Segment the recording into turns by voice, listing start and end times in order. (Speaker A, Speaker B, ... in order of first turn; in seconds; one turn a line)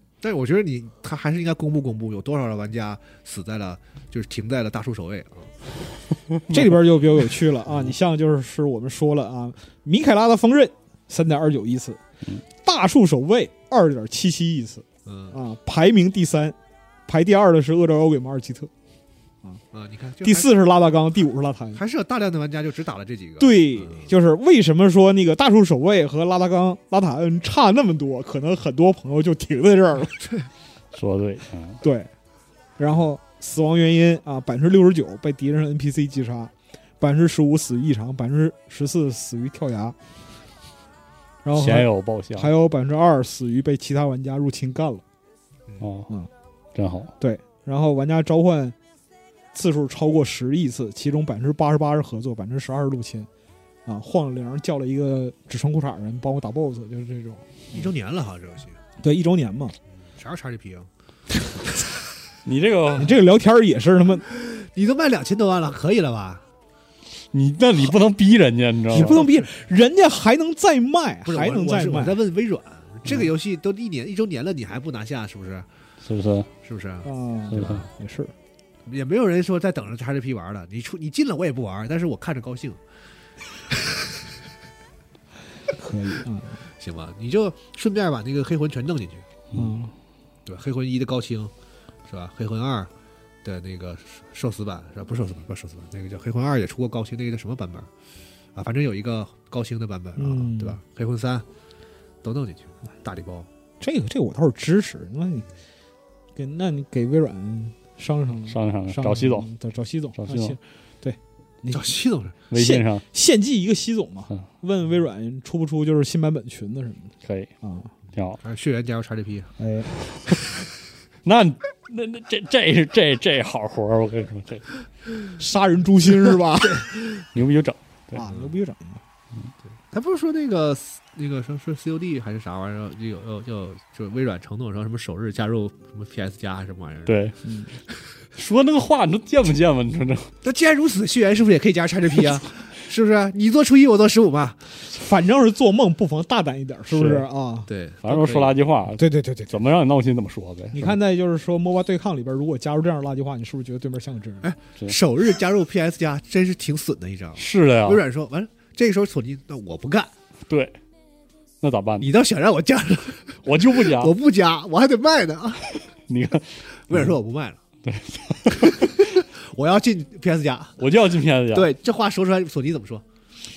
Speaker A: 0.2-5.5
Speaker B: 6.3-6.7
Speaker C: 6.5-12.0
Speaker C: 12.6-16.6
Speaker A: 15.1-15.3
Speaker C: 17.1-18.7
Speaker A: 19.7-20.6
Speaker C: 20.2-21.8
Speaker A: 21.8-24.1
Speaker C: 23.4-30.3
Speaker B: 30.9-31.8
Speaker C: 31.8-32.1
Speaker C: 32.8-40.0
Speaker C: 41.4-45.0
Speaker B: 41.5-42.5
Speaker B: 45.8-46.1
Speaker B: 46.7-47.1
Speaker C: 47.2-48.8
Speaker C: 49.5-53.3
Speaker C: 53.9-57.8
Speaker A: 57.7-58.8
Speaker C: 59.0-59.7
Speaker A: 60.1-60.9
Speaker B: 62.4-63.2
Speaker C: 63.0-64.2
Speaker A: 64.3-66.4
Speaker B: 67.3-69.3
Speaker C: 68.9-72.2
Speaker A: 68.9-69.5
Speaker A: 71.2-75.7
Speaker B: 76.0-76.5
Speaker A: 76.6-77.8
Speaker C: 77.0-78.3
Speaker B: 77.5-77.8
Speaker A: 78.8-82.8
Speaker C: 85.7-86.6
Speaker A: 86.8-89.2
Speaker C: 89.5-89.9
Speaker A: 90.5-91.5
Speaker A: 92.1-92.9
Speaker A: 93.4-97.9
Speaker A: 98.5-101.4
Speaker C: 100.2-100.8
Speaker A: 102.2-103.5
Speaker C: 103.8-105.5
Speaker C: 106.3-112.0
Speaker B: 108.5-109.5
Speaker B: 110.2-110.6
Speaker A: 111.7-112.3
Speaker B: 112.5-113.0
Speaker C: 112.5-117.9
Speaker B: 117.2-117.5
Speaker B: 118.1-118.4
Speaker A: 118.4-119.5
Speaker C: 119.6-119.9
Speaker B: 121.2-124.7
Speaker C: 125.4-126.9
Speaker B: 127.3-128.2
Speaker C: 128.1-129.0
Speaker A: 129.9-137.2
Speaker B: 137.1-137.3
Speaker C: 137.4-137.7
Speaker B: 138.3-140.3
Speaker A: 140.4-144.6
Speaker C: 144.9-147.7
Speaker B: 146.9-147.3
Speaker A: 147.7-148.6
Speaker B: 148.0-150.9
Speaker C: 149.0-149.5
Speaker C: 150.7-154.5
Speaker A: 154.4-160.1
Speaker B: 157.3-158.0
Speaker B: 160.5-160.7
Speaker B: 161.6-162.1
Speaker A: 162.0-165.8
Speaker B: 163.4-164.1
Speaker B: 166.1-167.1
Speaker A: 166.9-167.6
Speaker B: 167.8-169.1
Speaker A: 168.7-170.9
Speaker B: 170.8-171.7
Speaker A: 171.5-173.0